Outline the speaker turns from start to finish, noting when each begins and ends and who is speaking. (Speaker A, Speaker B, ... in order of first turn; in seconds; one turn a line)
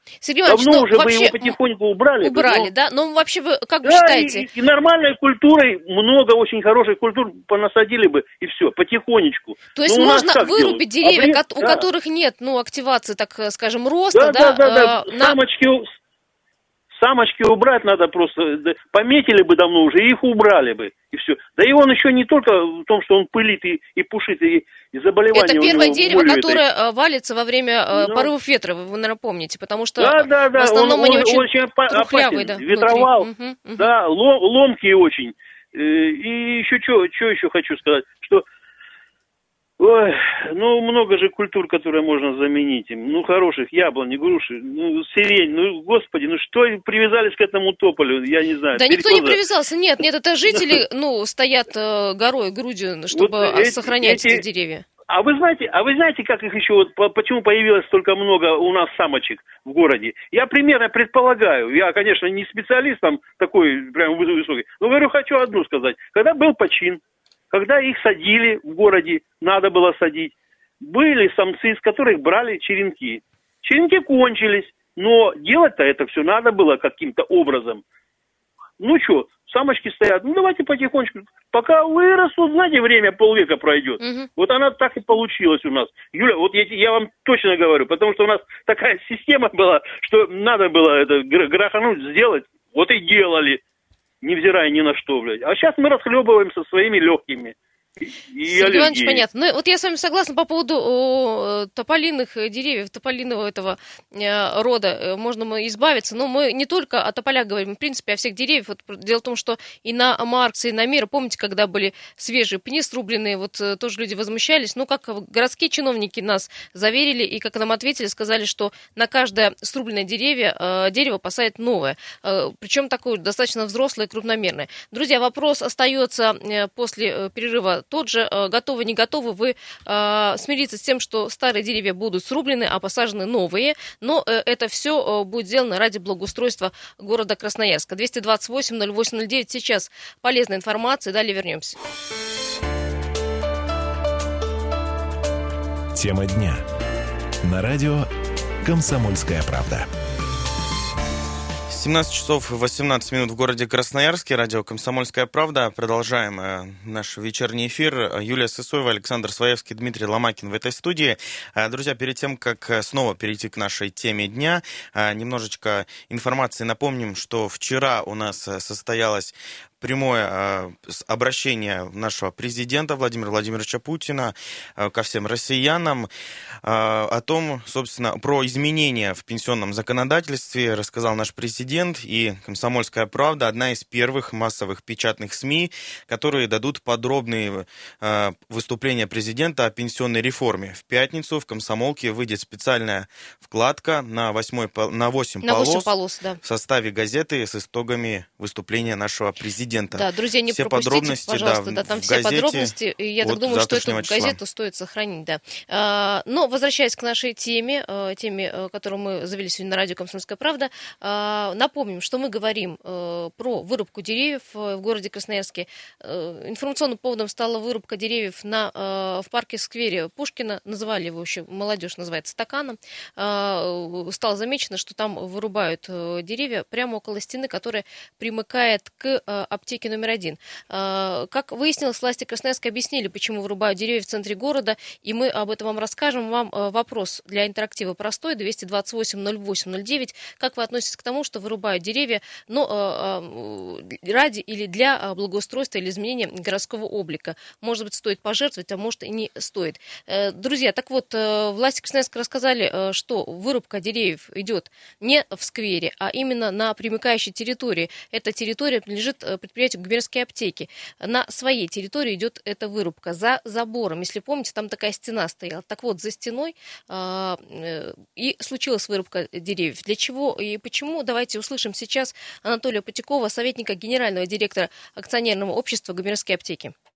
Speaker A: 0.2-1.6
Speaker B: 0.5-2.7
Speaker A: 2.2-4.5
Speaker B: 3.8-11.8
Speaker A: 9.7-15.4
Speaker B: 14.1-15.9
Speaker B: 16.9-26.6
Speaker A: 25.3-33.9
Speaker B: 27.9-28.3
Speaker B: 30.0-38.4
Speaker B: 39.8-49.4
Speaker A: 48.7-54.8
Speaker B: 53.1-54.4
Speaker B: 55.1-67.0
Speaker B: 67.5-77.8
Speaker B: 78.8-93.6
Speaker A: 84.0-84.3
Speaker B: 94.2-99.2
Speaker A: 98.5-141.8
Speaker C: 145.9-146.6
Speaker C: 147.4-148.1
Speaker C: 148.6-149.9
Speaker D: 151.7-176.1
Speaker D: 176.6-204.4
Speaker A: 195.4-196.4
Speaker A: 199.9-276.7